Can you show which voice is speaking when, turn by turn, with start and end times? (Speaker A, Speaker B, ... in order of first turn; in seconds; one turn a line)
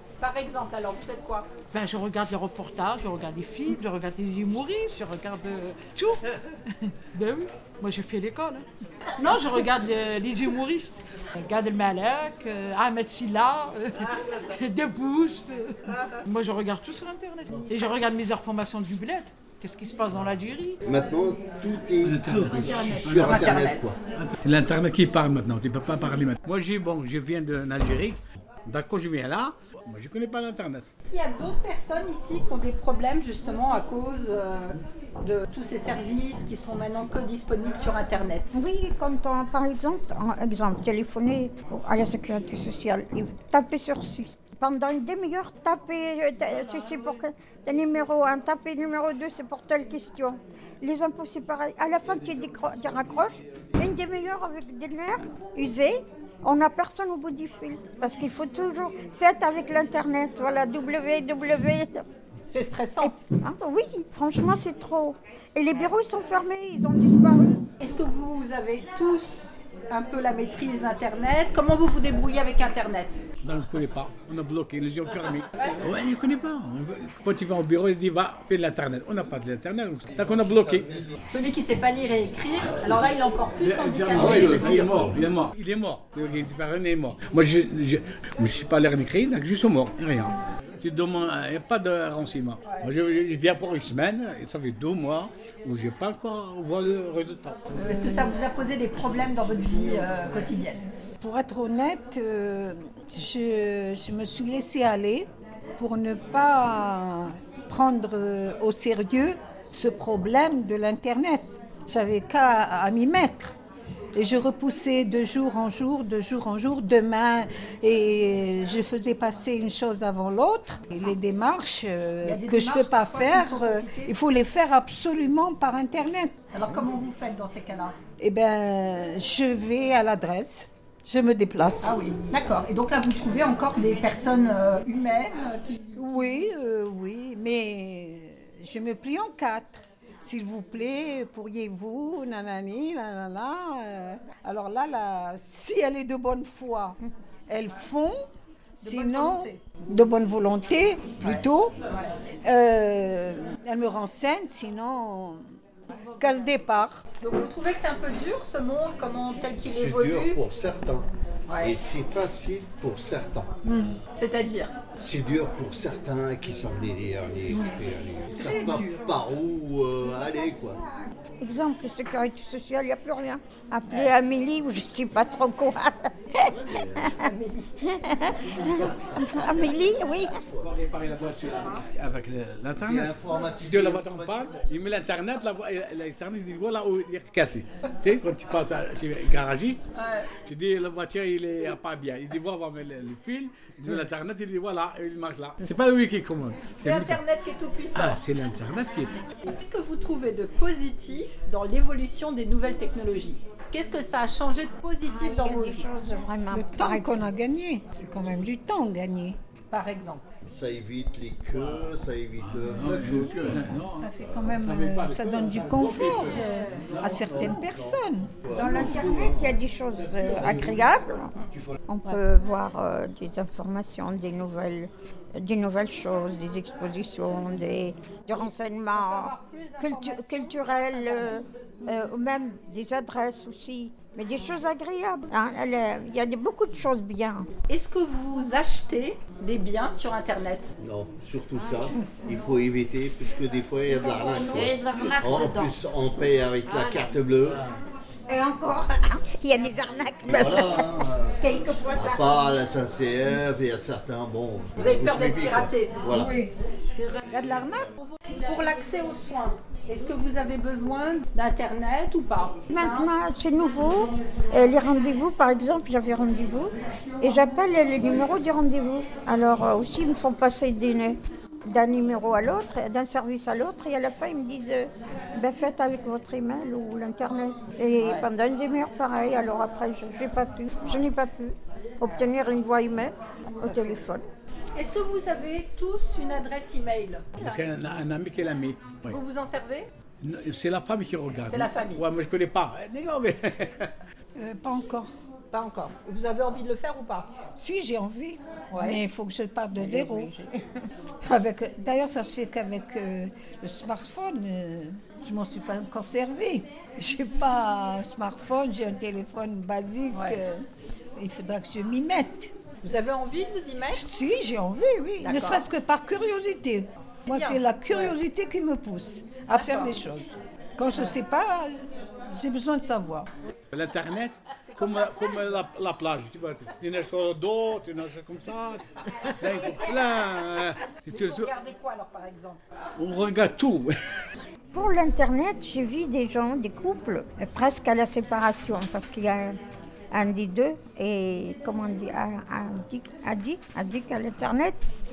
Speaker A: 0.2-1.5
Speaker B: 1.7-6.2
Speaker B: 6.9-8.7
Speaker B: 9.2-20.8
Speaker C: 20.8-24.0
Speaker D: 22.0-23.6
Speaker A: 22.5-23.9
Speaker D: 24.1-30.9
Speaker A: 31.1-38.6
Speaker E: 38.5-62.0
Speaker A: 62.5-63.1
Speaker E: 63.0-67.6
Speaker A: 67.8-73.2
Speaker D: 73.4-80.9
Speaker A: 81.3-85.0
Speaker D: 83.6-97.7
Speaker C: 84.1-85.2
Speaker A: 97.8-100.8
Speaker F: 101.1-113.5
Speaker F: 114.1-126.3
Speaker A: 122.2-124.1
Speaker A: 126.5-128.0
Speaker F: 128.2-131.9
Speaker A: 131.8-136.0
Speaker F: 136.0-148.2
Speaker A: 148.8-149.6
Speaker F: 148.8-151.7
Speaker F: 152.4-157.0
Speaker A: 157.2-160.4
Speaker C: 159.7-161.1
Speaker A: 161.5-161.7
Speaker C: 161.6-163.6
Speaker F: 163.6-164.0
Speaker A: 164.2-164.7
Speaker C: 165.0-170.8
Speaker F: 167.5-167.8
Speaker F: 168.4-168.9
Speaker E: 170.0-176.5
Speaker C: 176.4-177.2
Speaker A: 177.2-177.6
Speaker E: 177.8-180.4
Speaker C: 178.6-179.7
Speaker C: 180.3-180.7
Speaker D: 180.6-189.9
Speaker C: 182.8-184.5
Speaker A: 189.9-190.3
Speaker D: 190.4-197.2
Speaker A: 196.8-198.2
Speaker D: 197.9-199.2
Speaker A: 199.4-205.9
Speaker E: 205.1-207.2
Speaker F: 206.5-209.4
Speaker A: 209.7-210.2
Speaker C: 210.5-214.4
Speaker D: 212.4-217.2
Speaker F: 213.5-218.3
Speaker C: 217.1-219.6
Speaker E: 218.5-237.5
Speaker A: 228.3-231.5
Speaker A: 237.7-240.7
Speaker C: 240.8-247.7
Speaker E: 244.0-245.6
Speaker E: 248.3-252.5
Speaker C: 250.3-251.4
Speaker C: 251.9-256.4
Speaker A: 254.8-256.0
Speaker F: 256.1-256.5
Speaker F: 257.3-257.9
Speaker A: 258.0-263.1
Speaker E: 262.7-284.2
Speaker A: 278.0-278.3
Speaker A: 284.8-287.6
Speaker D: 287.4-289.2
Speaker A: 289.1-289.9
Speaker D: 290.2-293.9
Speaker A: 291.5-292.1
Speaker F: 294.4-295.1
Speaker A: 295.5-297.3
Speaker F: 297.6-300.3
Speaker A: 298.7-299.0
Speaker A: 299.8-300.5
Speaker F: 301.2-312.5
Speaker A: 310.1-310.4
Speaker A: 312.8-314.1
Speaker F: 313.9-323.3
Speaker A: 315.2-315.7
Speaker A: 317.3-318.1
Speaker A: 319.5-320.0
Speaker D: 323.7-331.5
Speaker A: 324.6-325.5
Speaker A: 329.4-329.9
Speaker A: 331.1-332.6
Speaker D: 333.0-333.9
Speaker E: 334.7-339.6
Speaker E: 340.1-344.9